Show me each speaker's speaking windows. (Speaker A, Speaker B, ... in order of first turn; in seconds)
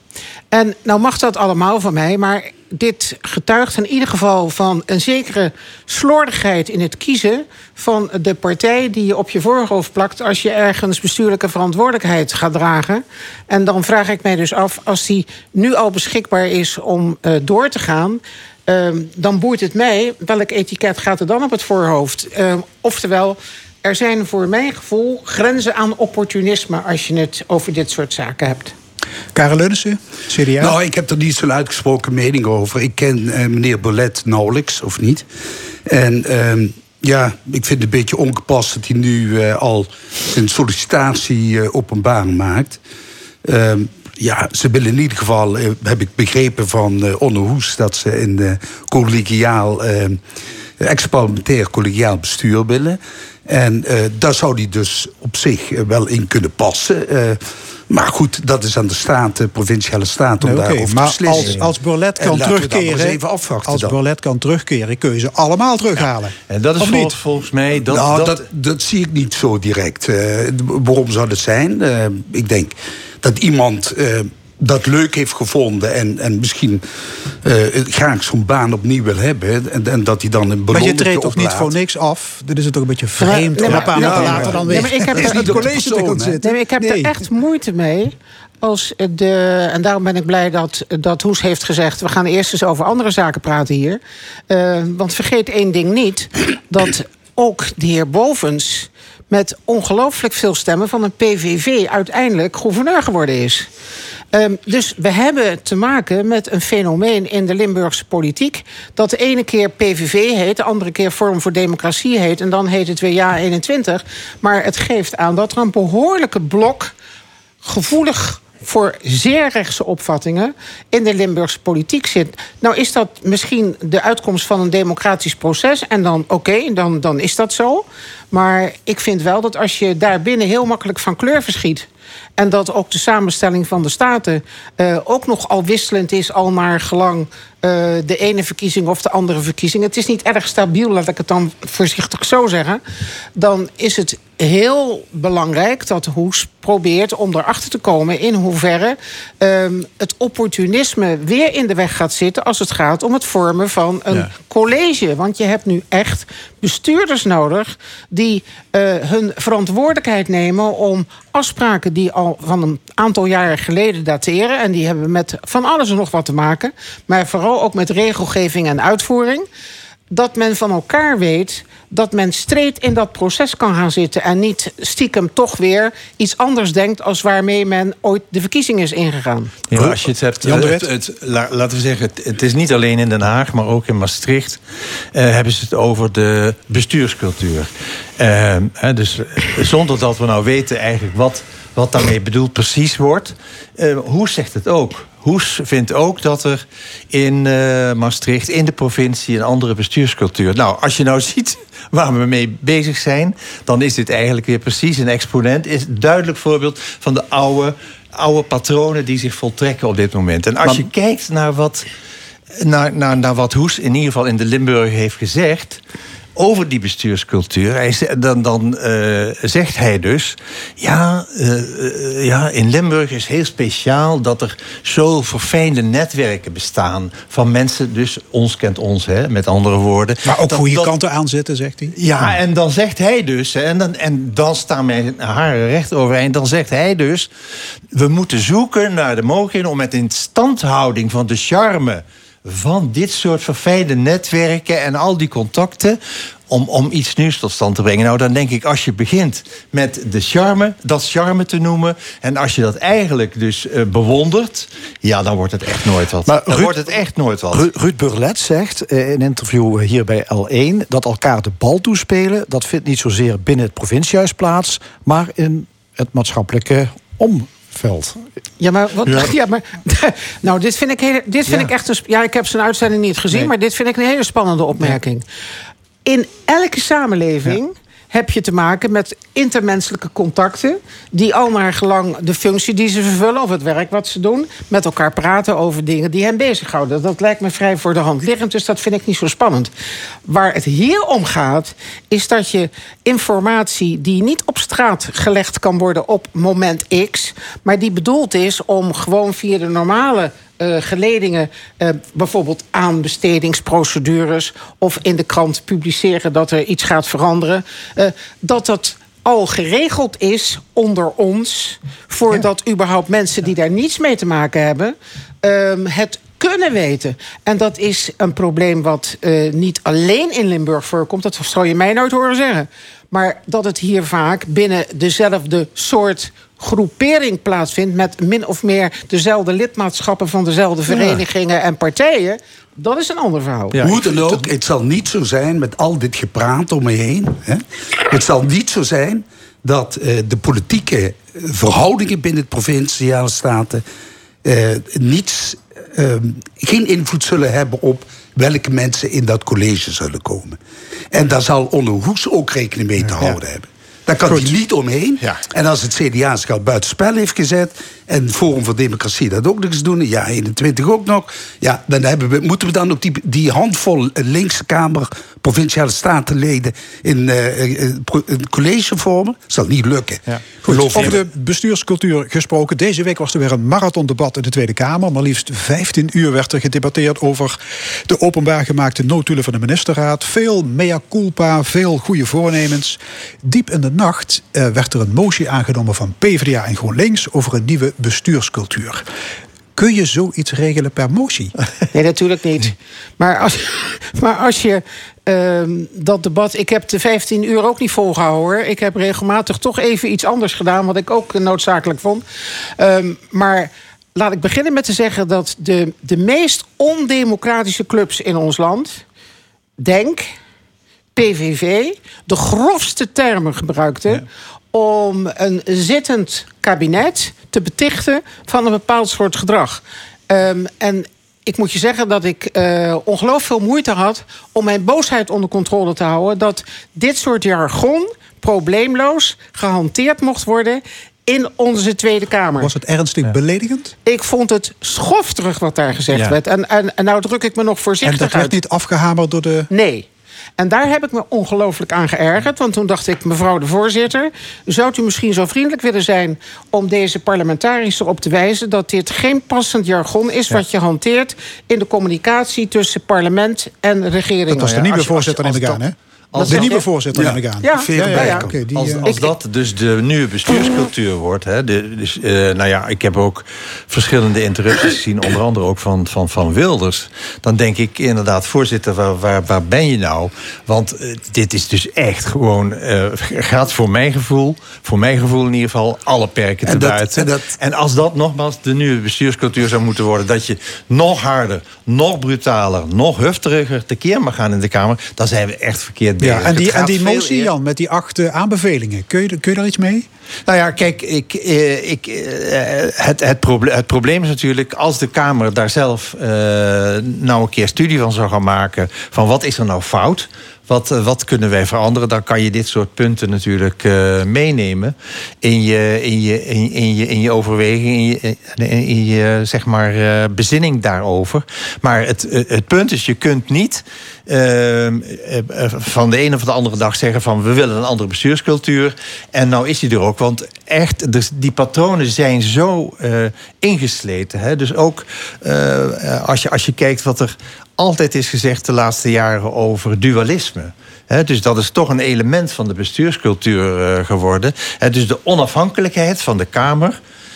Speaker A: 0.5-28.7, 83.2-85.7, 86.4-103.7, 104.3-116.9, 117.6-142.8, 143.3-169.4, 170.1-179.6, 268.6-275.2, 276.0-289.7, 290.2-333.8, 391.9-402.2, 402.8-409.0, 409.8-410.3, 411.1-432.7, 434.0-438.6, 439.7-440.1, 440.6-455.1, 456.4-456.9, 457.6-458.5
Speaker B: 29.3-30.8, 60.4-67.2, 80.7-87.2, 179.7-180.9, 230.2-232.4, 370.6-389.0, 389.7-391.5, 432.6-433.9, 438.0-439.7, 454.5-459.1, 486.2-490.1
Speaker C: 30.6-35.3, 35.9-42.8, 43.4-50.2, 50.8-64.0, 67.9-81.7, 83.7-86.4, 333.8-343.8, 344.4-350.6, 351.1-371.2, 457.1-458.4, 476.6-477.5
Speaker D: 66.5-68.4, 179.7-184.6, 185.1-211.8, 212.6-215.8, 216.4-231.0, 231.9-237.3, 237.9-246.0, 246.5-257.7, 330.9-331.2, 370.3-371.2, 454.6-456.8, 458.0-487.5, 490.5-537.0
Speaker E: 256.2-256.8, 257.5-268.1